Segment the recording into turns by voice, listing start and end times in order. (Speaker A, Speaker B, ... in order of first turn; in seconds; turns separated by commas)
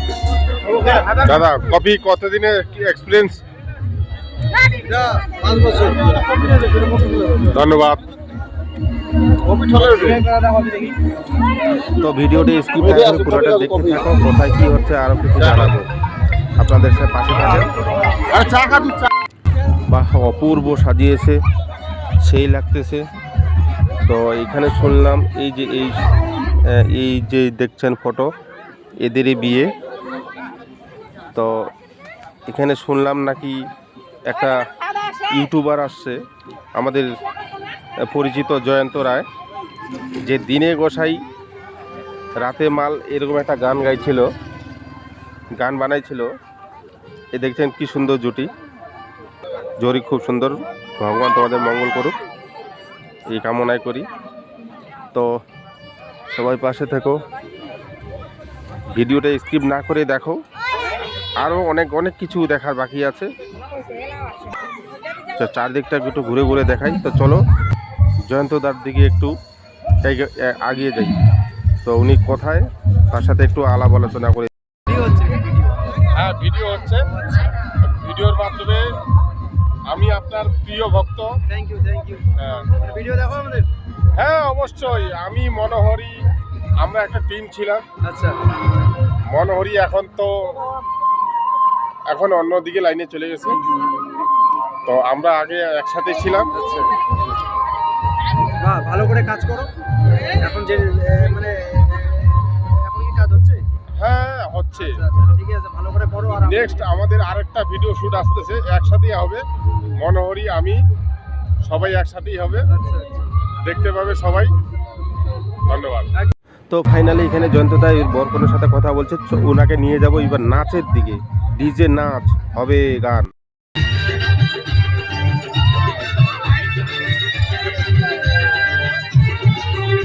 Speaker A: 1.2-3.4, Speaker B: 1.3-1.6, Speaker C: 4.9-6.1, Speaker A: 7.5-8.0, Speaker C: 9.5-11.0, Speaker B: 11.9-15.9, Speaker B: 16.6-17.7, Speaker B: 18.6-18.9, Speaker B: 19.9-21.4, Speaker B: 22.2-23.1, Speaker B: 24.1-26.0, Speaker B: 26.7-28.3, Speaker B: 29.0-29.7, Speaker B: 31.3-31.7, Speaker B: 32.5-33.6, Speaker B: 34.3-34.6, Speaker B: 35.3-36.2, Speaker B: 36.8-37.1, Speaker B: 38.0-39.3, Speaker B: 40.3-41.2, Speaker B: 42.4-44.3, Speaker B: 45.6-46.3, Speaker B: 47.3-48.5, Speaker B: 49.8-52.1, Speaker B: 53.3-54.1, Speaker B: 56.3-57.2, Speaker B: 59.0-60.4, Speaker B: 61.4-63.3, Speaker B: 65.4-67.4, Speaker B: 68.3-69.3, Speaker B: 70.0-71.2, Speaker B: 71.8-74.5, Speaker C: 74.9-76.0, Speaker A: 76.1-77.0, Speaker C: 77.1-77.9, Speaker A: 78.0-78.9, Speaker A: 79.9-81.3, Speaker C: 81.5-83.7, Speaker A: 84.2-86.2, Speaker A: 86.8-87.8, Speaker C: 88.0-88.4, Speaker A: 89.3-90.7, Speaker A: 92.1-93.6, Speaker A: 94.9-96.5, Speaker C: 96.5-96.9, Speaker C: 98.6-99.7, Speaker C: 100.4-103.6, Speaker A: 104.0-104.9, Speaker C: 104.8-106.8, Speaker A: 106.5-109.4, Speaker A: 110.0-110.8, Speaker A: 111.6-112.6, Speaker C: 112.7-113.3, Speaker A: 113.6-114.5, Speaker A: 115.7-116.1, Speaker B: 116.7-123.3